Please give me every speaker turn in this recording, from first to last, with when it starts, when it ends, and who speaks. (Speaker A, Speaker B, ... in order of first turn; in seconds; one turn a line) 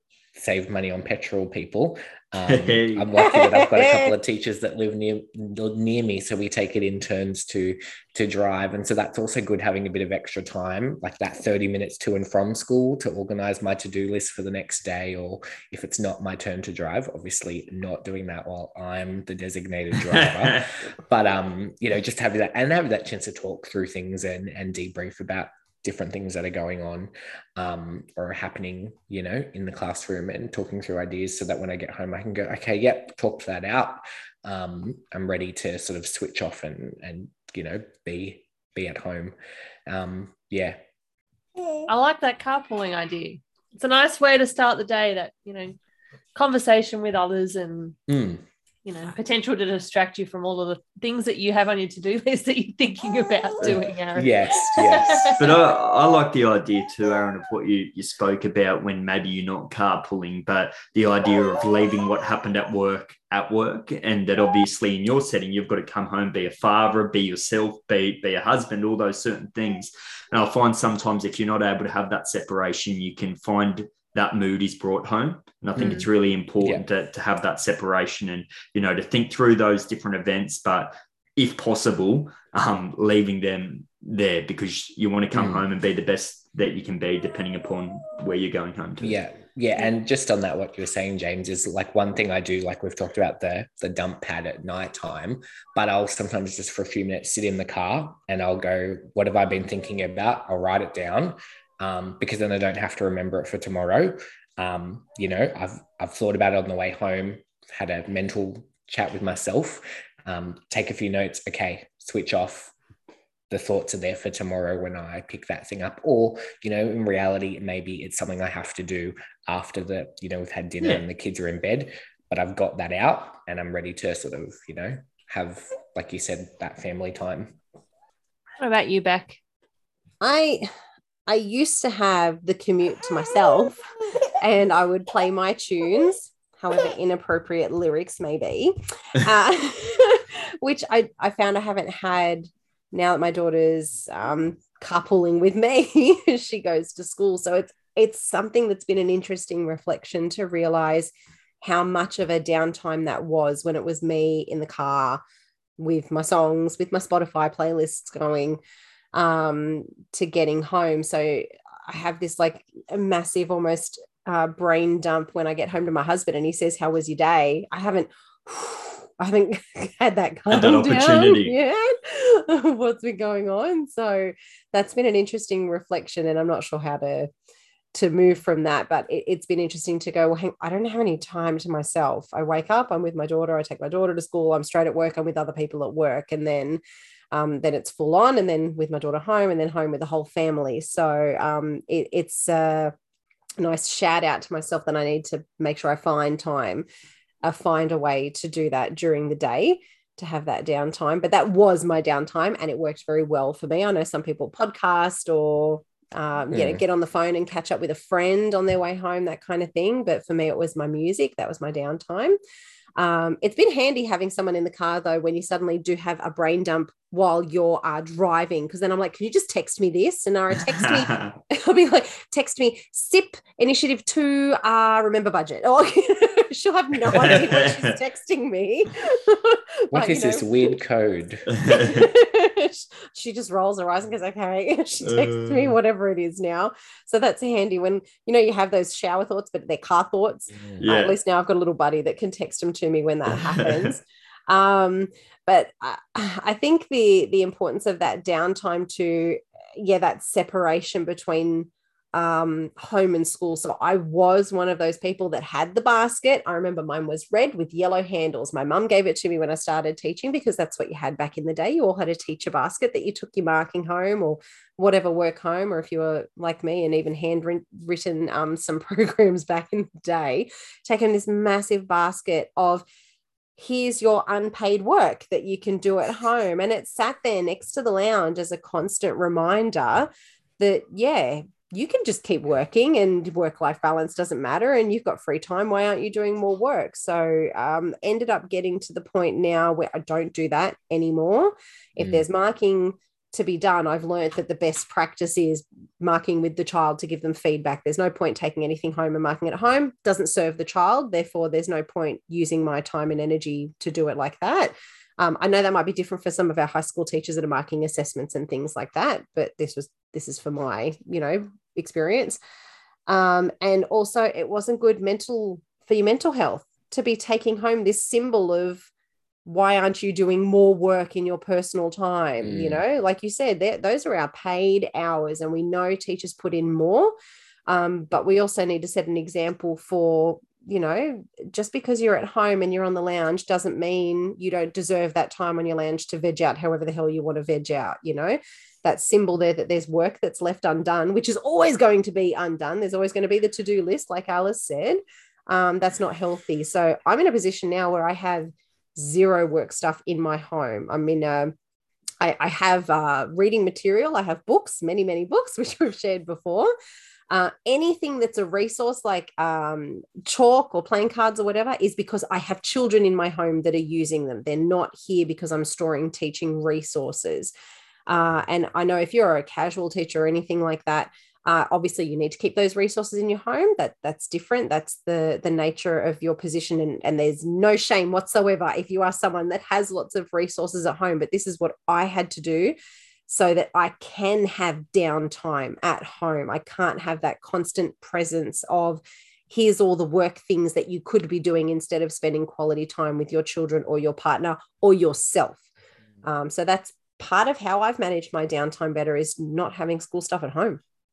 Speaker A: 0.3-39.4
Speaker B: 2.4-3.2
Speaker C: 3.3-4.1
Speaker B: 20.1-20.7
Speaker A: 39.9-40.8
Speaker D: 41.9-45.8
Speaker D: 46.4-48.0
Speaker A: 48.1-48.4
Speaker D: 48.9-55.5
Speaker A: 53.6-55.4
Speaker B: 55.4-89.2
Speaker A: 75.8-76.0
Speaker D: 75.8-76.1
Speaker A: 85.3-85.6
Speaker A: 89.0-112.7
Speaker A: 113.5-127.6
Speaker D: 128.6-129.4
Speaker C: 130.2-130.7
Speaker C: 131.3-133.8
Speaker C: 134.4-155.2
Speaker C: 155.8-158.6
Speaker C: 159.1-177.3
Speaker B: 170.5-171.6
Speaker C: 177.9-186.8
Speaker C: 187.3-192.9
Speaker C: 193.6-196.9
Speaker C: 197.4-212.4
Speaker A: 206.5-206.8
Speaker C: 213.0-230.7
Speaker B: 220.7-221.3
Speaker B: 227.1-228.0
Speaker A: 229.9-231.5
Speaker B: 231.5-232.1
Speaker C: 231.7-272.9
Speaker B: 235.0-235.8
Speaker B: 240.8-241.2
Speaker B: 243.4-243.9
Speaker C: 273.6-312.4
Speaker A: 292.0-292.3
Speaker C: 313.1-318.9
Speaker C: 319.4-327.1
Speaker A: 322.4-322.8
Speaker C: 327.7-351.6
Speaker C: 352.2-356.7
Speaker C: 357.3-367.5
Speaker C: 368.1-382.8
Speaker C: 383.3-395.6
Speaker C: 396.2-400.8